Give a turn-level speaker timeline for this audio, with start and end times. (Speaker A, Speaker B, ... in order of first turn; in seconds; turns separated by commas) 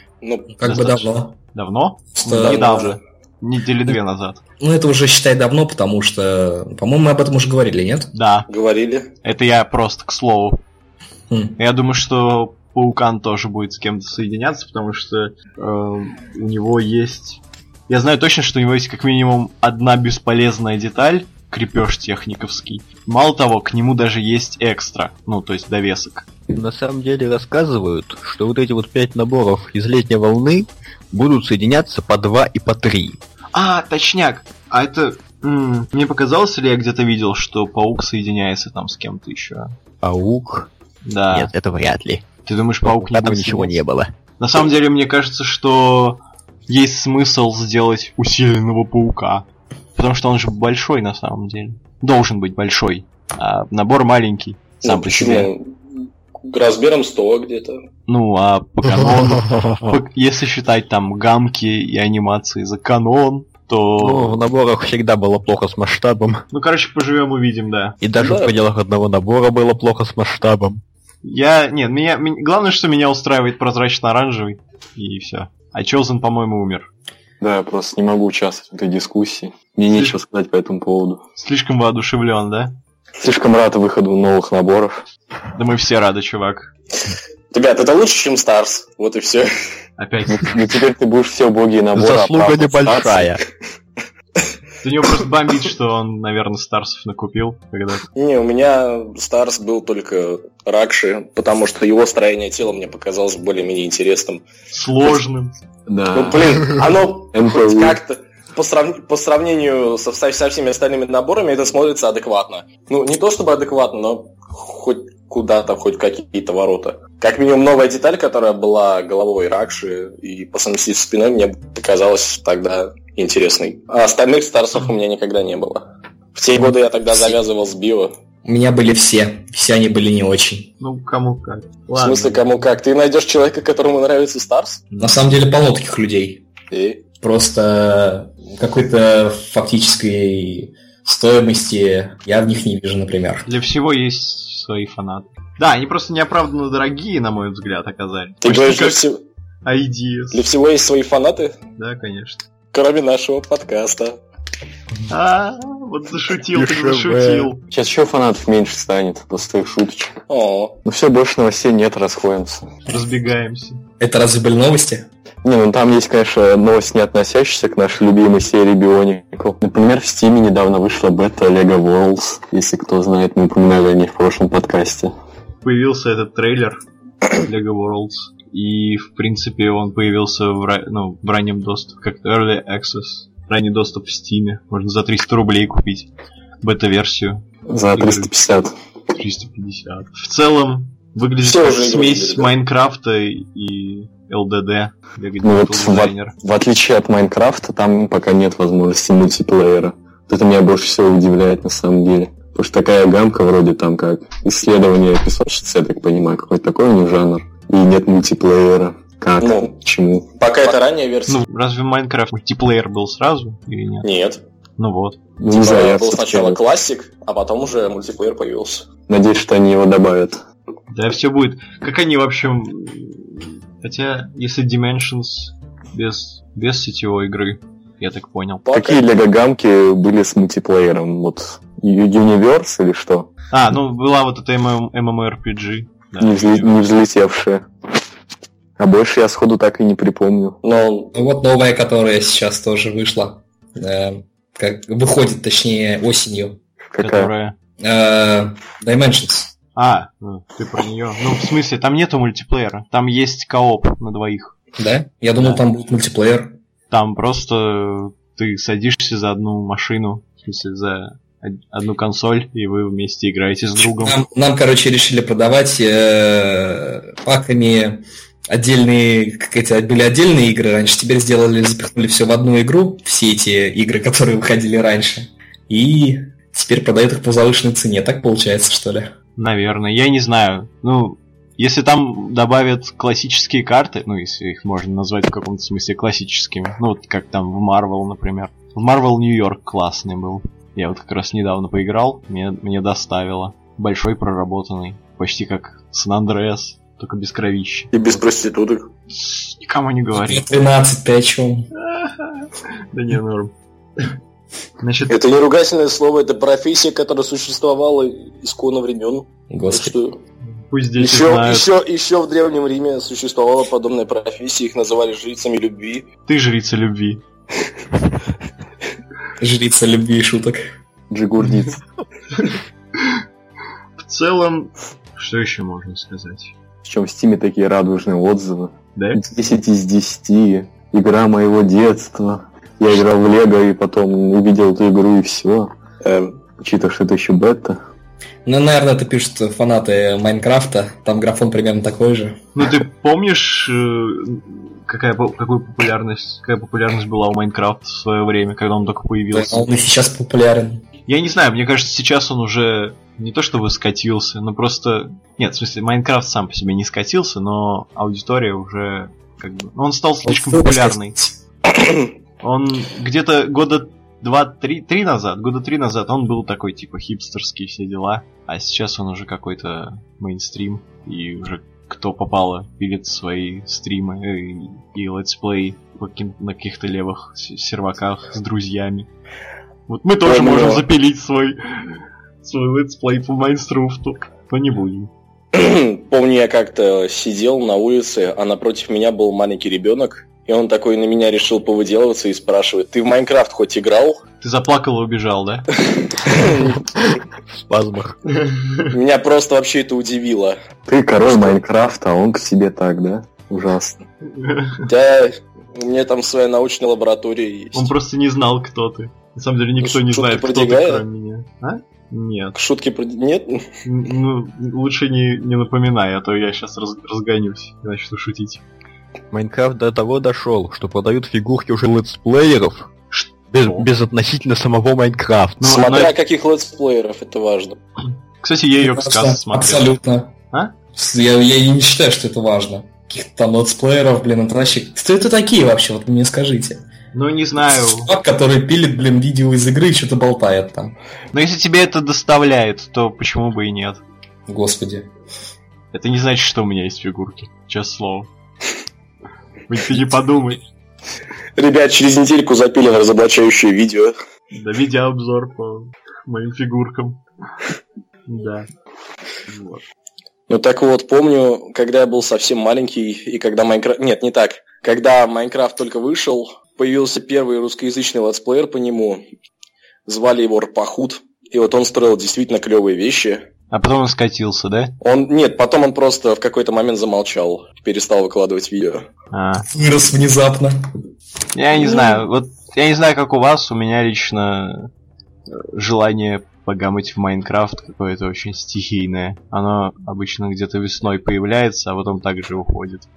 Speaker A: 0.2-0.5, Speaker B: 0.5-1.4, Speaker C: 0.6-4.4, Speaker B: 2.1-2.6, Speaker A: 2.4-3.0, Speaker B: 4.6-8.1, Speaker C: 8.1-8.5, Speaker A: 8.5-9.1, Speaker C: 9.2-10.6, Speaker B: 11.3-11.6, Speaker C: 11.6-26.3, Speaker D: 26.5-33.2, Speaker C: 33.5-39.7, Speaker D: 40.0-40.7, Speaker C: 41.0-41.5, Speaker D: 41.3-42.2, Speaker C: 42.4-43.8, Speaker D: 42.8-44.1, Speaker C: 44.4-55.5, Speaker A: 54.8-57.8, Speaker C: 58.1-64.4, Speaker D: 58.8-59.9, Speaker D: 64.0-66.4, Speaker C: 66.5-68.0, Speaker D: 68.0-70.8, Speaker A: 68.2-68.5, Speaker C: 71.2-76.9, Speaker E: 77.4-81.2, Speaker C: 79.9-80.2, Speaker C: 81.3-82.8, Speaker E: 83.2-85.0, Speaker C: 85.5-86.7, Speaker A: 87.5-89.5, Speaker C: 90.0-90.6, Speaker E: 90.3-93.4, Speaker D: 91.9-93.4, Speaker C: 94.8-98.1, Speaker A: 98.1-104.4, Speaker C: 104.7-105.5, Speaker E: 105.9-108.0, Speaker A: 106.1-128.1, Speaker B: 126.5-127.3, Speaker B: 128.4-130.7, Speaker C: 130.8-132.5, Speaker A: 132.0-134.9, Speaker B: 134.9-136.4, Speaker A: 136.7-137.0, Speaker B: 137.2-143.4, Speaker C: 143.4-149.0, Speaker A: 148.4-149.2, Speaker C: 149.6-150.4, Speaker A: 150.3-151.6, Speaker C: 151.8-152.4, Speaker A: 152.7-154.2, Speaker C: 155.1-157.6, Speaker D: 156.5-157.5, Speaker E: 157.7-160.2, Speaker A: 160.3-160.8, Speaker E: 160.8-162.6, Speaker C: 162.9-163.8, Speaker B: 164.0-165.1, Speaker E: 165.4-175.1, Speaker C: 175.6-176.8, Speaker C: 177.3-186.1, Speaker C: 186.6-187.4, Speaker E: 187.7-188.7, Speaker C: 187.9-188.3, Speaker C: 189.1-196.3, Speaker A: 191.4-192.5, Speaker E: 195.4-210.3, Speaker A: 209.4-209.7, Speaker A: 210.4-211.4, Speaker C: 211.3-214.1, Speaker A: 214.0-214.4, Speaker C: 214.8-215.2, Speaker E: 215.4-216.6, Speaker A: 215.5-218.9, Speaker E: 219.1-220.4, Speaker C: 220.9-228.7, Speaker A: 228.7-229.0, Speaker E: 228.7-233.3, Speaker C: 233.5-236.8, Speaker E: 236.2-237.7, Speaker E: 238.8-240.6, Speaker A: 240.6-241.1, Speaker B: 241.1-246.6, Speaker E: 246.9-247.3, Speaker C: 247.0-247.6, Speaker B: 247.8-249.5, Speaker C: 249.7-254.5, Speaker B: 254.8-256.5, Speaker C: 255.3-255.6, Speaker C: 256.9-264.2, Speaker B: 263.8-279.1, Speaker C: 279.4-298.2, Speaker A: 297.9-298.9, Speaker C: 299.1-300.4, Speaker B: 300.1-301.7, Speaker C: 301.8-304.1, Speaker C: 304.8-305.2, Speaker A: 305.1-310.2, Speaker B: 309.5-309.9, Speaker C: 310.5-311.7, Speaker A: 311.0-316.1, Speaker C: 316.2-317.2, Speaker B: 319.4-320.6, Speaker E: 321.1-321.8, Speaker C: 322.3-323.2, Speaker C: 324.0-326.5, Speaker E: 326.8-335.7, Speaker C: 328.9-329.2, Speaker A: 336.0-336.4, Speaker E: 336.5-337.8, Speaker B: 338.4-342.4, Speaker C: 342.5-349.8, Speaker B: 349.3-350.8, Speaker C: 351.1-361.3, Speaker B: 360.2-361.0, Speaker A: 361.7-362.1, Speaker C: 362.4-379.1, Speaker C: 379.9-385.1, Speaker A: 380.2-380.8, Speaker A: 385.5-394.2, Speaker C: 394.4-395.7, Speaker A: 396.2-396.7, Speaker D: 396.5-398.2, Speaker C: 398.3-398.9, Speaker A: 398.9-400.6, Speaker E: 400.9-404.0, Speaker A: 401.2-401.6, Speaker C: 404.4-404.9, Speaker A: 404.9-407.9, Speaker C: 407.7-412.6, Speaker A: 409.8-411.0, Speaker A: 412.5-413.6, Speaker C: 413.8-418.6, Speaker D: 419.3-422.9, Speaker C: 423.1-423.9, Speaker D: 423.5-425.7, Speaker C: 425.6-426.1, Speaker A: 425.6-427.8, Speaker C: 428.4-429.9, Speaker B: 428.8-430.3, Speaker B: 430.9-436.8, Speaker C: 437.1-438.1, Speaker B: 437.7-440.9, Speaker C: 441.3-444.0, Speaker B: 444.5-445.1, Speaker C: 445.9-448.3, Speaker C: 449.7-450.6, Speaker A: 451.6-454.1, Speaker C: 454.5-457.2, Speaker C: 458.3-458.7, Speaker C: 459.5-459.8, Speaker A: 460.5-469.2, Speaker A: 470.1-473.4, Speaker C: 473.7-474.9, Speaker A: 475.0-479.0, Speaker C: 479.3-479.7, Speaker B: 479.7-480.8, Speaker C: 481.5-484.9, Speaker C: 485.5-493.1